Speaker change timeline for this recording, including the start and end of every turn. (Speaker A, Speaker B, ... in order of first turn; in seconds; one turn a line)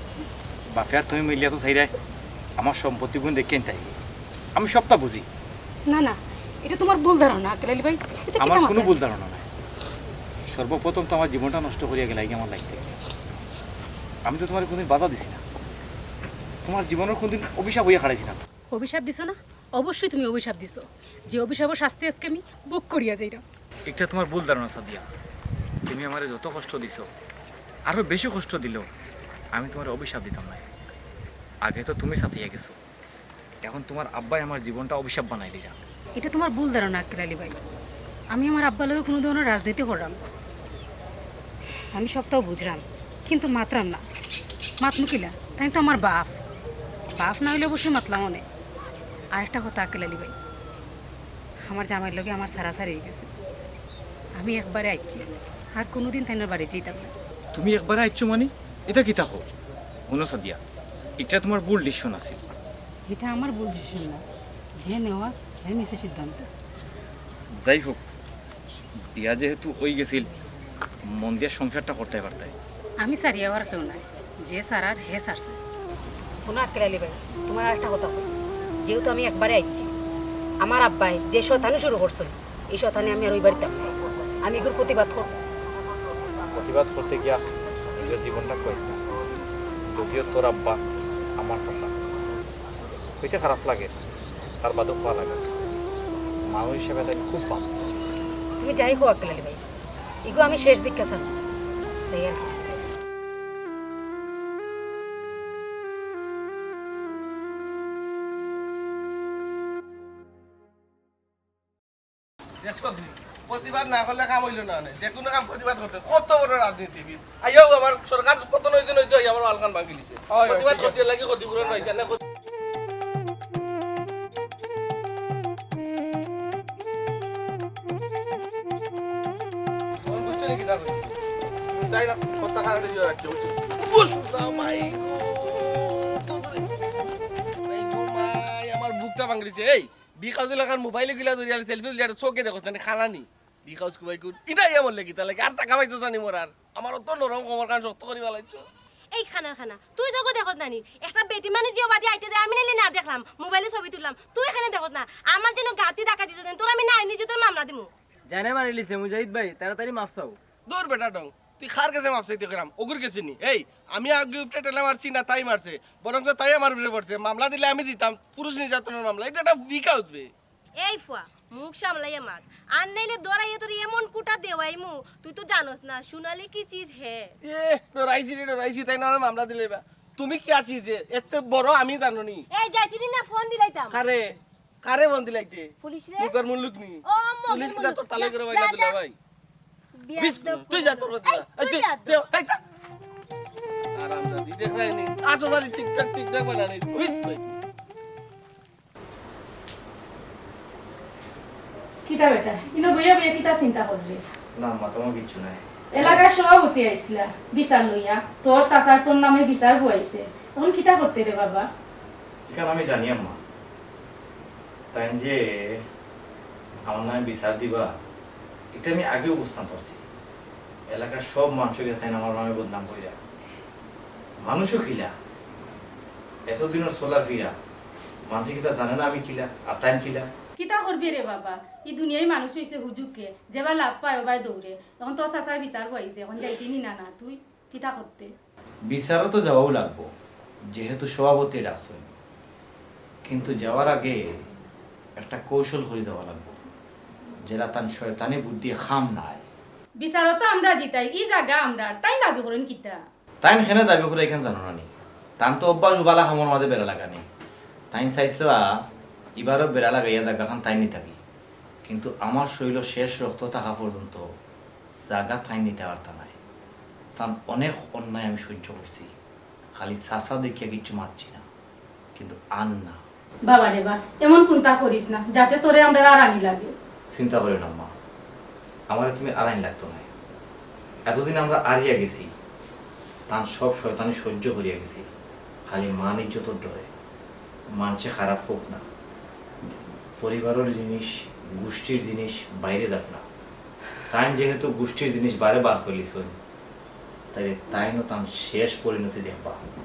Speaker A: 0.7-1.9
Speaker A: 2.6-3.9
Speaker A: 4.5-5.2
Speaker B: 5.9-8.9
Speaker A: 8.4-9.4
Speaker A: 10.5-12.9
Speaker A: 14.2-15.4
Speaker A: 16.6-18.4
Speaker B: 18.7-23.4
Speaker A: 23.9-25.1
Speaker A: 25.9-27.1
Speaker A: 27.9-28.9
Speaker A: 29.5-30.6
Speaker A: 31.6-32.7
Speaker A: 33.6-35.8
Speaker B: 36.2-37.6
Speaker B: 38.3-40.2
Speaker B: 41.9-44.0
Speaker B: 44.8-46.4
Speaker B: 47.1-48.4
Speaker B: 49.3-50.3
Speaker B: 51.7-53.3
Speaker B: 54.4-57.1
Speaker A: 57.5-59.4
Speaker A: 60.1-60.6
Speaker A: 61.2-62.4
Speaker B: 63.1-64.2
Speaker B: 64.8-66.5
Speaker A: 67.6-68.0
Speaker A: 69.1-70.3
Speaker A: 71.1-72.5
Speaker B: 73.0-75.6
Speaker B: 76.4-78.3
Speaker B: 78.8-79.9
Speaker B: 80.6-83.9
Speaker B: 84.4-85.3
Speaker A: 86.5-87.4
Speaker A: 88.0-89.0
Speaker A: 89.8-90.8
Speaker A: 91.4-91.9
Speaker A: 93.2-94.0
Speaker A: 94.6-95.5
Speaker A: 96.5-97.7
Speaker B: 98.6-99.6
Speaker B: 100.2-101.3
Speaker B: 102.1-102.5
Speaker C: 112.6-122.2
Speaker C: 130.1-131.1
Speaker C: 131.8-136.6
Speaker C: 137.7-148.6
Speaker D: 149.1-157.9
Speaker E: 158.3-160.4
Speaker C: 160.7-170.3
Speaker D: 170.8-177.3
Speaker C: 177.4-182.4
Speaker D: 182.5-184.0
Speaker C: 183.9-184.2
Speaker C: 184.8-189.1
Speaker D: 185.8-186.3
Speaker D: 187.1-188.9
Speaker D: 190.0-192.2
Speaker C: 190.2-192.5
Speaker C: 194.0-197.4
Speaker F: 202.1-204.2
Speaker A: 204.6-206.2
Speaker F: 205.9-211.7
Speaker A: 212.5-213.4
Speaker A: 214.9-215.8
Speaker A: 216.9-217.9
Speaker A: 218.7-220.0
Speaker A: 220.9-223.2
Speaker A: 224.4-225.1
Speaker A: 226.5-227.5
Speaker A: 228.3-230.3
Speaker F: 230.6-238.3
Speaker A: 238.9-240.1
Speaker A: 240.7-242.1
Speaker A: 243.2-244.4
Speaker A: 245.2-246.6
Speaker A: 247.4-249.4
Speaker F: 250.0-253.0
Speaker A: 253.4-254.9
Speaker A: 255.4-257.2
Speaker A: 257.9-258.6
Speaker A: 259.4-261.2
Speaker A: 261.9-264.2
Speaker A: 265.1-266.3
Speaker A: 267.1-269.1
Speaker A: 269.7-271.4
Speaker A: 272.1-273.0
Speaker F: 273.5-276.7
Speaker A: 277.1-277.9
Speaker A: 278.9-280.1
Speaker A: 281.1-282.3
Speaker A: 283.3-285.1
Speaker A: 285.7-286.9
Speaker A: 287.7-288.8
Speaker A: 289.6-293.2
Speaker A: 294.1-296.4
Speaker A: 297.3-299.6